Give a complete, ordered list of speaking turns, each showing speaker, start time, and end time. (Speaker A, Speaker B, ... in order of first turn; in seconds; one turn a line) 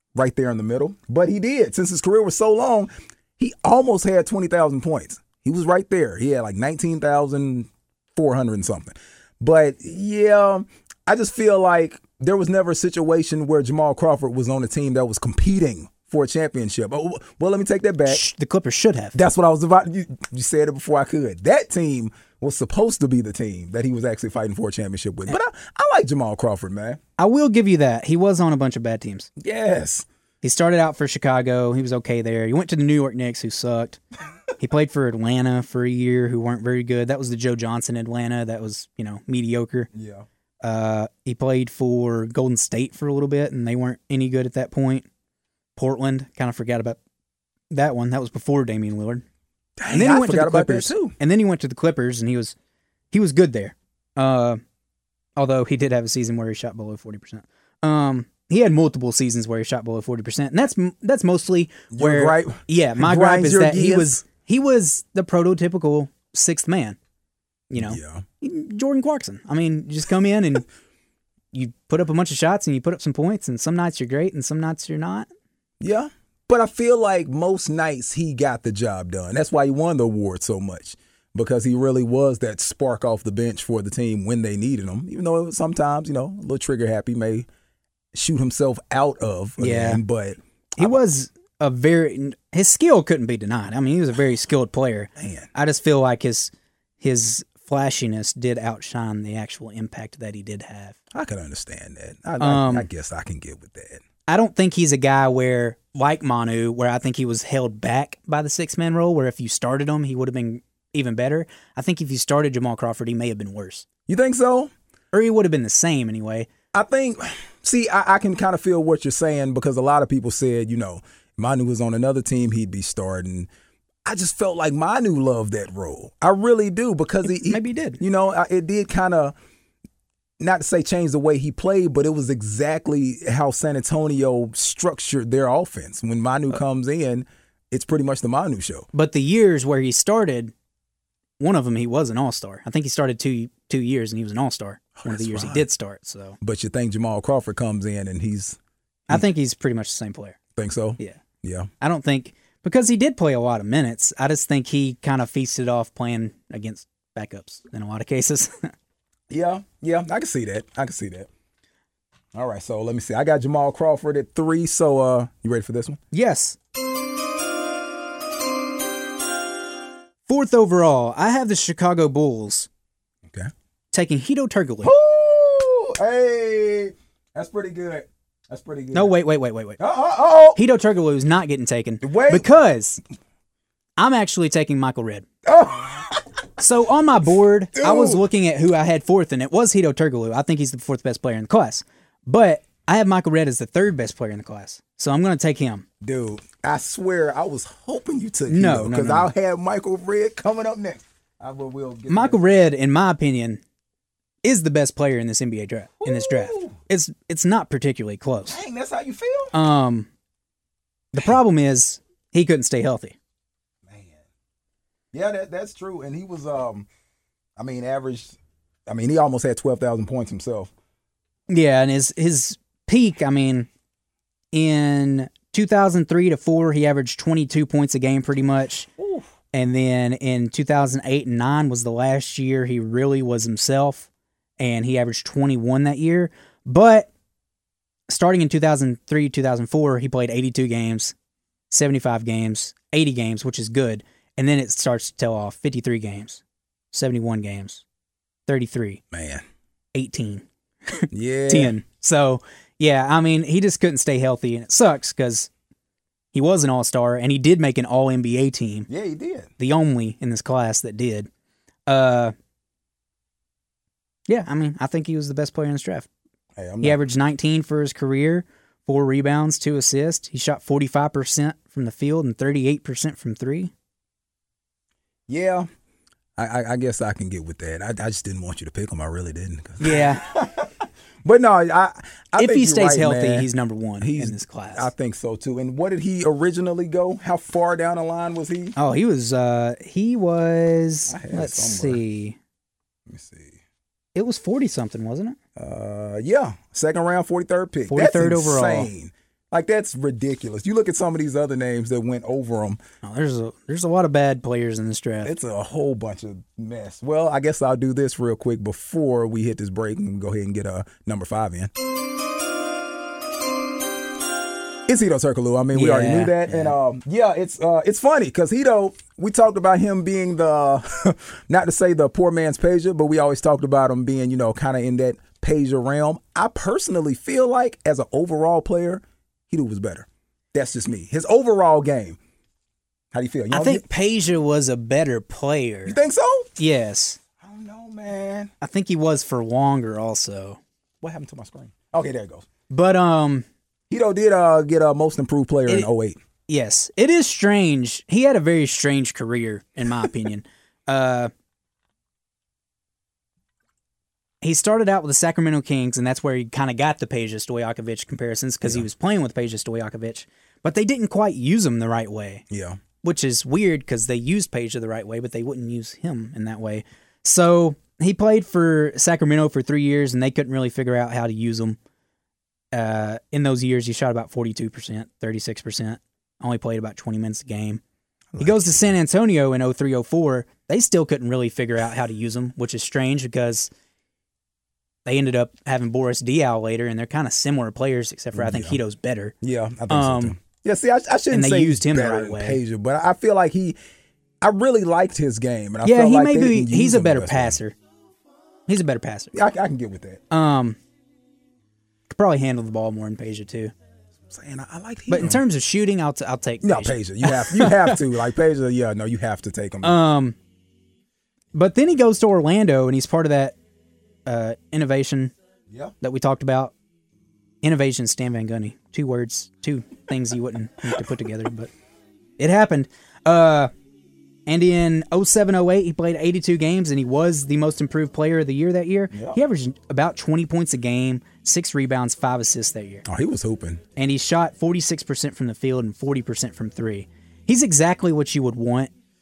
Speaker A: 0.1-18.2
Speaker B: 18.0-19.2
Speaker A: 19.1-27.0
Speaker B: 27.2-29.3
Speaker A: 29.4-30.1
Speaker B: 30.4-34.0
Speaker B: 34.6-39.9
Speaker A: 39.9-40.2
Speaker B: 40.6-45.1
Speaker B: 45.8-47.0
Speaker B: 47.7-49.2
Speaker A: 49.8-51.1
Speaker B: 49.9-52.5
Speaker B: 53.1-54.6
Speaker B: 55.4-67.0
Speaker A: 61.9-64.2
Speaker B: 67.7-70.7
Speaker A: 67.8-68.2
Speaker B: 71.5-75.3
Speaker A: 75.8-87.5
Speaker A: 88.1-91.0
Speaker B: 89.6-90.0
Speaker B: 90.8-101.0
Speaker A: 95.2-95.5
Speaker A: 101.1-104.0
Speaker B: 102.4-102.9
Speaker B: 104.3-113.8
Speaker A: 114.1-114.7
Speaker B: 115.1-116.5
Speaker A: 116.7-123.5
Speaker A: 124.0-129.3
Speaker B: 127.2-128.0
Speaker A: 130.4-138.9
Speaker B: 138.9-140.5
Speaker B: 141.4-146.4
Speaker A: 144.9-145.7
Speaker A: 146.4-148.6
Speaker B: 149.1-150.4
Speaker A: 150.5-151.7
Speaker B: 151.8-158.7
Speaker A: 159.3-161.3
Speaker A: 162.3-166.0
Speaker B: 166.1-166.6
Speaker B: 170.3-172.7
Speaker A: 173.2-173.5
Speaker B: 173.9-174.9
Speaker A: 174.8-179.1
Speaker B: 178.9-179.8
Speaker A: 179.8-180.6
Speaker B: 180.6-183.0
Speaker A: 182.0-182.4
Speaker B: 184.0-185.2
Speaker A: 185.4-186.4
Speaker B: 186.6-195.9
Speaker A: 187.7-188.2
Speaker A: 196.0-202.4
Speaker B: 198.5-199.3
Speaker B: 202.1-203.6
Speaker B: 204.4-208.6
Speaker A: 206.0-206.8
Speaker A: 208.5-209.5
Speaker B: 209.5-210.1
Speaker A: 211.1-211.4
Speaker B: 211.1-213.2
Speaker A: 213.8-214.2
Speaker A: 215.1-216.9
Speaker A: 217.6-220.7
Speaker B: 221.5-223.7
Speaker B: 224.5-228.9
Speaker A: 229.0-229.2
Speaker B: 229.5-234.1
Speaker B: 234.6-237.1
Speaker B: 238.1-241.1
Speaker B: 241.7-247.8
Speaker B: 248.5-249.0
Speaker A: 249.1-249.4
Speaker B: 249.9-255.5
Speaker A: 251.1-251.8
Speaker B: 256.3-258.9
Speaker A: 258.9-259.5
Speaker B: 259.6-261.3
Speaker B: 261.9-262.3
Speaker B: 264.3-266.1
Speaker A: 266.6-267.0
Speaker B: 266.8-273.7
Speaker A: 275.3-275.7
Speaker A: 276.4-288.7
Speaker B: 279.8-280.2
Speaker B: 282.4-284.9
Speaker B: 288.8-292.4
Speaker A: 291.1-292.0
Speaker A: 293.1-293.6
Speaker B: 294.1-295.4
Speaker A: 295.6-302.8
Speaker B: 297.9-298.9
Speaker B: 303.0-305.3
Speaker A: 305.2-311.7
Speaker A: 314.9-332.2
Speaker B: 315.7-316.7
Speaker A: 333.1-333.9
Speaker B: 333.5-336.0
Speaker A: 335.9-336.6
Speaker B: 336.6-337.2
Speaker A: 337.4-338.5
Speaker B: 338.6-340.6
Speaker A: 341.0-342.4
Speaker B: 342.7-343.4
Speaker A: 343.9-346.2
Speaker B: 346.5-351.3
Speaker B: 354.4-362.4
Speaker A: 362.5-362.8
Speaker B: 363.0-371.8
Speaker B: 372.7-377.8
Speaker A: 378.3-378.9
Speaker B: 378.4-383.7
Speaker B: 385.1-389.3
Speaker A: 388.3-388.8
Speaker A: 389.4-393.8
Speaker B: 389.9-390.4
Speaker B: 391.3-392.6
Speaker A: 394.4-397.6
Speaker B: 395.8-397.8
Speaker B: 398.7-399.3
Speaker A: 399.3-400.2
Speaker B: 400.3-400.8
Speaker B: 402.1-403.7
Speaker A: 404.3-405.4
Speaker B: 405.1-408.0
Speaker A: 406.6-410.0
Speaker B: 409.8-410.4
Speaker B: 411.5-413.6
Speaker B: 414.2-415.3
Speaker B: 416.0-416.7
Speaker B: 417.6-421.7
Speaker B: 422.4-423.7
Speaker B: 424.5-433.1
Speaker A: 429.1-429.4
Speaker A: 433.1-433.8
Speaker B: 433.9-438.9